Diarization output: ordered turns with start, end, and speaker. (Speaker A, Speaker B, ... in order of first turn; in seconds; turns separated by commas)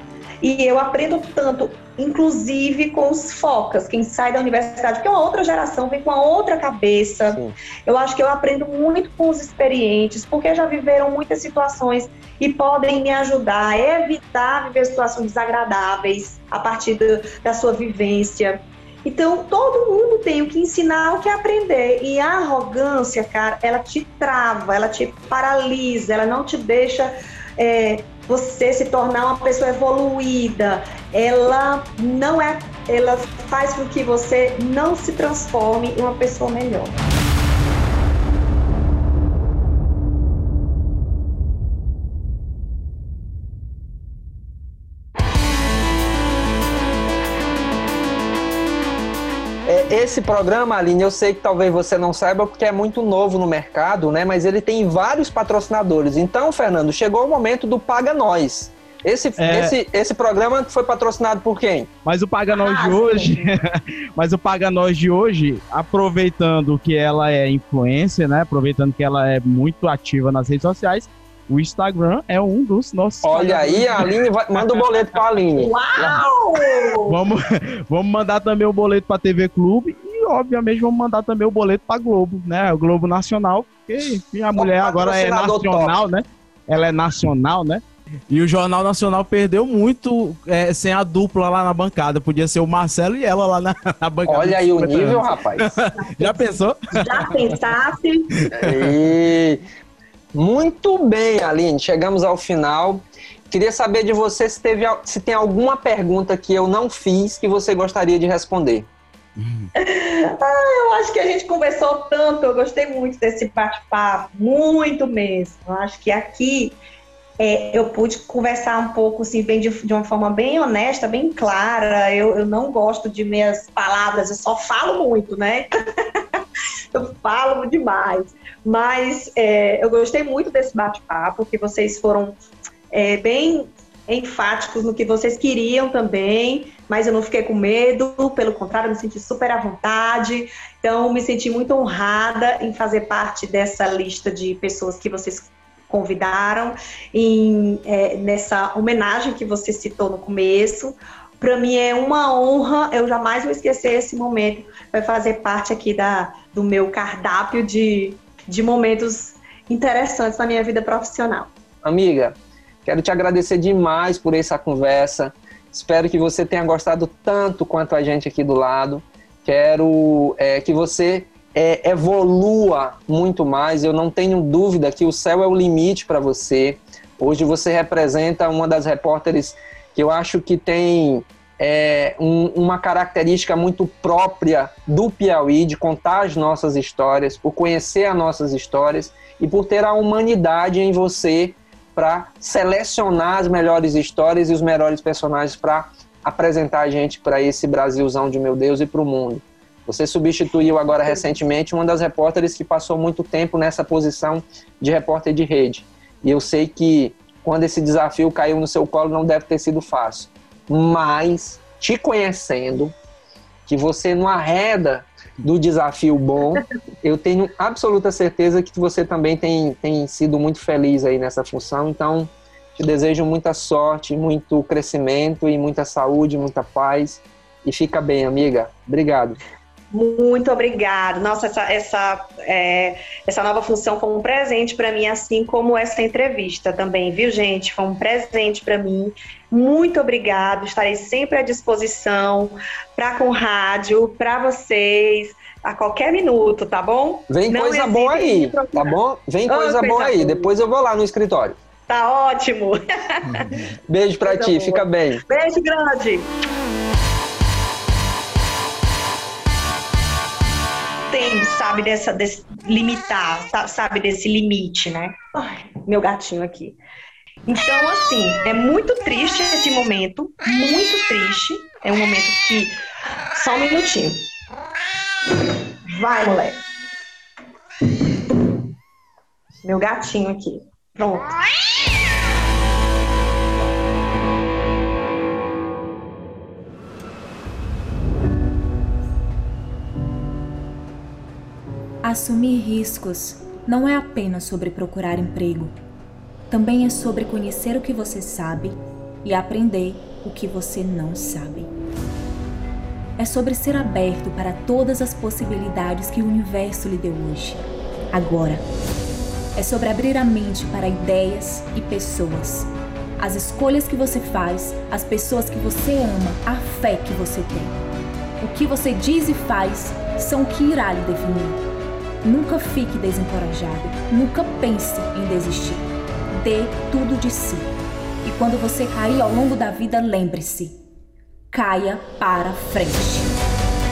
Speaker A: 0.4-37.0, Speaker B: 49.6-61.9, Speaker C: 59.4-59.8, Speaker C: 62.0-74.8, Speaker A: 62.5-63.5, Speaker B: 73.2-76.1, Speaker A: 75.5-77.2, Speaker C: 77.1-97.5, Speaker B: 84.5-86.0, Speaker B: 94.2-95.8, Speaker A: 96.0-96.5, Speaker A: 97.0-98.4, Speaker C: 98.5-98.9, Speaker B: 98.5-99.6, Speaker B: 100.3-108.9, Speaker C: 109.4-109.7, Speaker A: 109.7-116.8, Speaker A: 117.4-126.2, Speaker A: 126.9-132.4, Speaker A: 132.9-161.5, Speaker B: 161.8-212.9, Speaker B: 213.7-229.4, Speaker A: 229.9-248.9, Speaker B: 247.3-251.6, Speaker A: 249.5-250.5, Speaker A: 251.9-253.7, Speaker B: 253.9-255.2, Speaker A: 254.2-256.3, Speaker A: 261.1-266.8, Speaker A: 267.4-272.8, Speaker A: 273.3-274.3, Speaker A: 275.9-276.6, Speaker A: 279.6-281.4, Speaker D: 292.0-295.8, Speaker D: 296.5-301.7, Speaker D: 303.2-308.6, Speaker D: 309.6-317.7, Speaker D: 318.4-321.6, Speaker D: 322.2-327.7, Speaker D: 328.2-330.8, Speaker D: 331.5-333.3